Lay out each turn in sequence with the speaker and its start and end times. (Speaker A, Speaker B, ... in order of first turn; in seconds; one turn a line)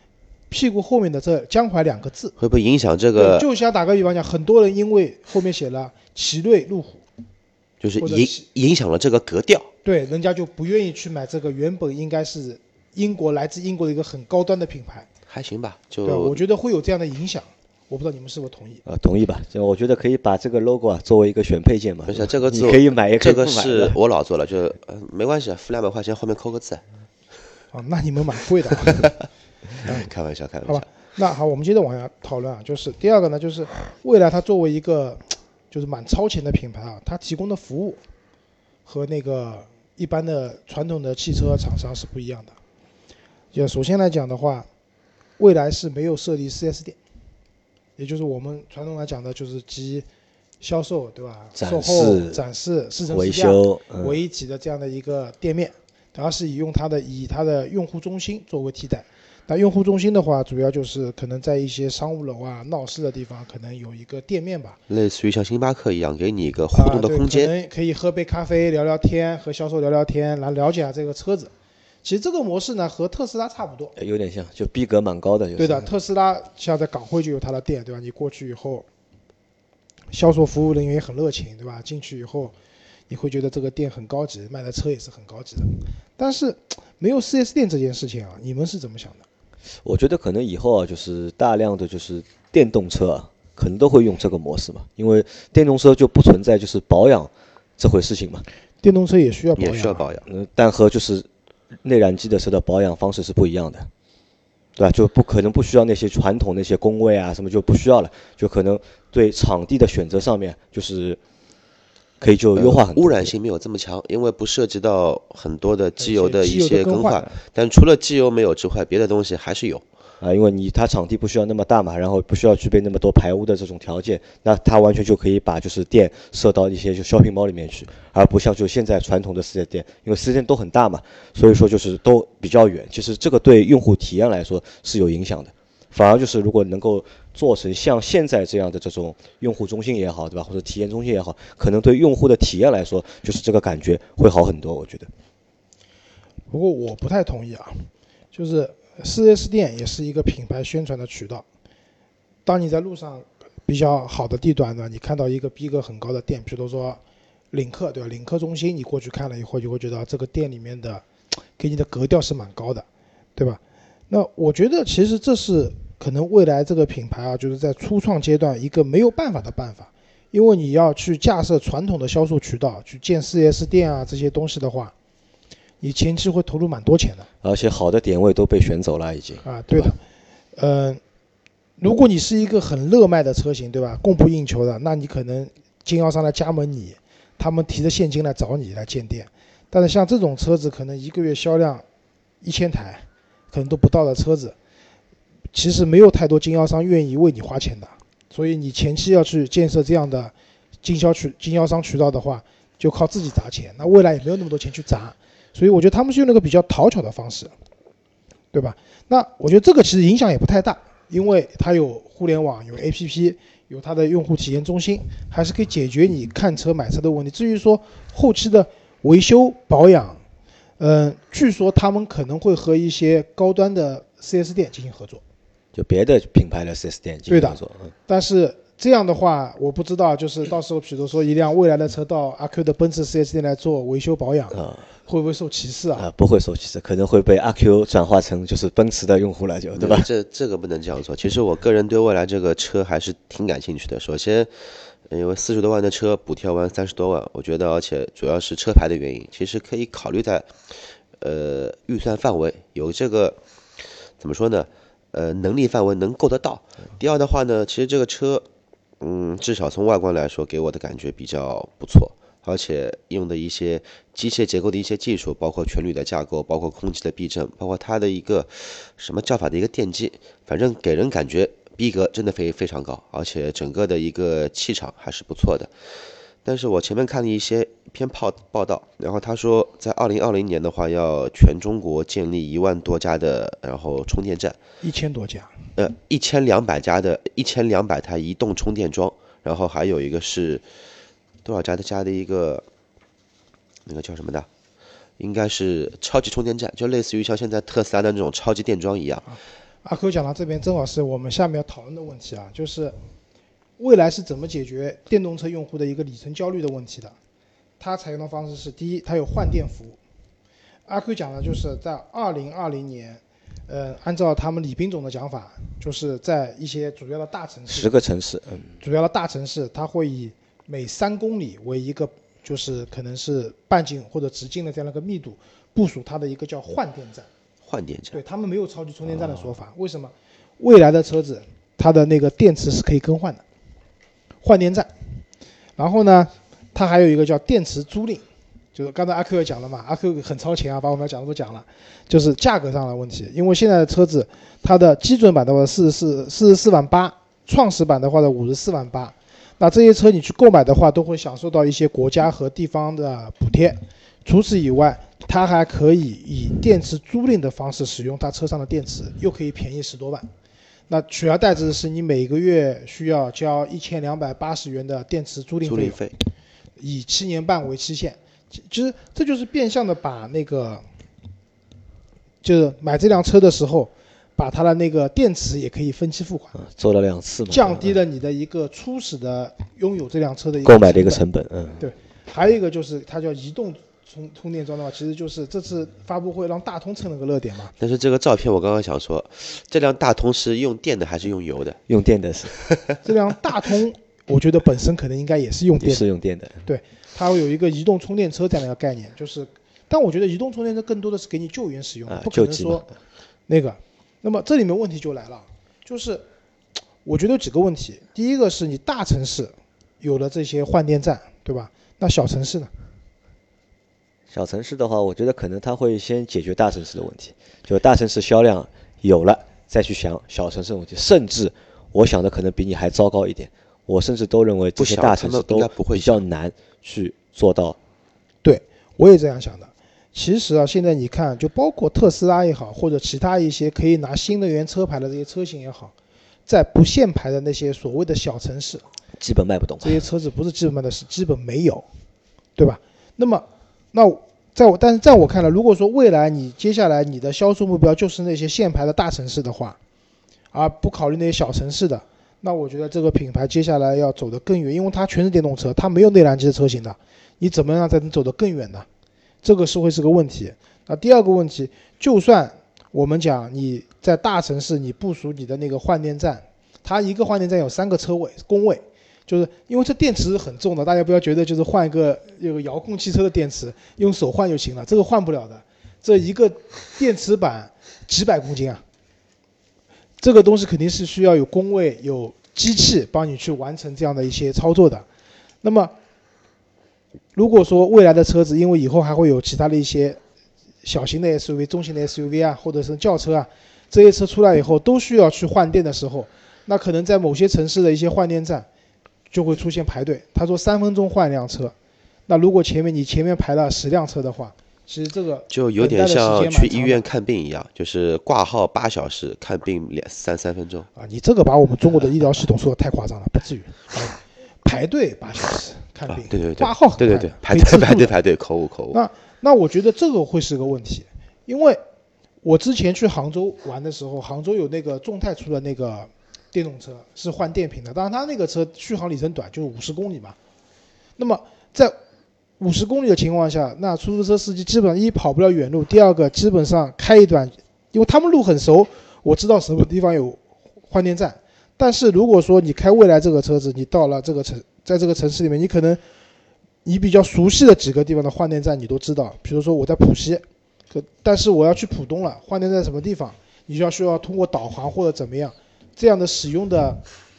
Speaker A: 0.5-2.3
Speaker B: 2.4-3.5
Speaker A: 3.1-7.0
Speaker B: 7.8-9.7
Speaker A: 8.0-8.4
Speaker A: 9.8-15.1
Speaker B: 15.3-16.4
Speaker A: 16.0-18.8
Speaker C: 18.9-23.9
Speaker B: 22.1-26.8
Speaker A: 27.7-29.1
Speaker B: 28.8-29.1
Speaker B: 29.8-30.8
Speaker A: 30.6-38.0
Speaker A: 38.9-42.5
Speaker A: 43.5-44.7
Speaker A: 45.4-47.0
Speaker A: 48.0-50.0
Speaker A: 50.6-64.8
Speaker C: 51.5-52.4
Speaker C: 53.1-54.1
Speaker B: 64.9-67.5
Speaker A: 66.7-71.5
Speaker A: 72.0-73.9
Speaker C: 74.0-75.9
Speaker A: 75.6-78.8
Speaker A: 80.1-82.5
Speaker A: 83.1-89.2
Speaker C: 89.8-98.4
Speaker A: 98.8-100.1
Speaker B: 99.6-100.3
Speaker C: 100.3-101.3
Speaker C: 101.8-103.9
Speaker C: 104.8-111.2
Speaker C: 112.2-113.3
Speaker B: 112.5-119.8
Speaker A: 116.0-117.3
Speaker C: 120.2-145.1
Speaker A: 146.5-151.4
Speaker A: 152.4-157.0
Speaker A: 157.5-161.1
Speaker A: 161.6-174.9
Speaker A: 175.8-177.3
Speaker C: 177.4-179.9
Speaker A: 179.4-180.0
Speaker A: 180.6-181.0
Speaker A: 181.8-191.8
Speaker A: 192.4-194.6
Speaker A: 195.5-207.5
Speaker A: 208.5-220.2
Speaker A: 220.8-225.2
Speaker C: 225.7-227.9
Speaker A: 227.3-236.1
Speaker C: 234.5-234.8
Speaker C: 235.9-240.1
Speaker B: 239.8-244.5
Speaker B: 245.1-253.4
Speaker B: 254.2-258.4
Speaker B: 259.0-275.7
Speaker B: 276.4-284.6
Speaker A: 284.8-285.5
Speaker B: 285.8-290.6
Speaker B: 291.4-292.6
Speaker B: 293.9-294.5
Speaker B: 295.2-299.2
Speaker A: 299.2-302.9
Speaker A: 303.8-307.1
Speaker A: 307.8-310.0
Speaker A: 310.9-317.9
Speaker C: 317.7-318.8
Speaker A: 318.8-327.3
Speaker B: 327.6-328.2
Speaker A: 328.1-333.4
Speaker A: 334.4-334.9
Speaker A: 335.8-360.3
Speaker A: 360.9-366.0
Speaker B: 365.6-366.1
Speaker A: 366.8-370.8
Speaker A: 372.4-376.6
Speaker C: 376.6-377.9
Speaker A: 377.5-381.2
Speaker C: 380.6-381.8
Speaker A: 381.8-387.7
Speaker B: 387.8-391.8
Speaker C: 391.9-392.5
Speaker A: 393.0-396.1
Speaker C: 395.8-396.6
Speaker A: 396.6-402.9
Speaker C: 402.1-402.9
Speaker A: 403.5-406.2
Speaker A: 407.0-412.7
Speaker C: 414.3-427.8
Speaker B: 424.8-426.2
Speaker A: 428.4-435.9
Speaker A: 436.5-438.8
Speaker C: 439.2-440.0
Speaker A: 439.8-441.8
Speaker A: 442.6-449.8
Speaker A: 450.5-458.9
Speaker A: 459.4-478.8
Speaker A: 480.2-485.1
Speaker A: 485.6-485.9
Speaker A: 487.3-490.2
Speaker A: 490.8-498.7
Speaker A: 499.3-501.7
Speaker A: 502.3-507.0
Speaker B: 505.5-510.9
Speaker A: 511.0-518.1
Speaker B: 516.1-519.0
Speaker A: 518.9-521.8
Speaker A: 522.4-530.4
Speaker A: 531.2-531.9
Speaker A: 532.6-546.0
Speaker A: 546.8-557.0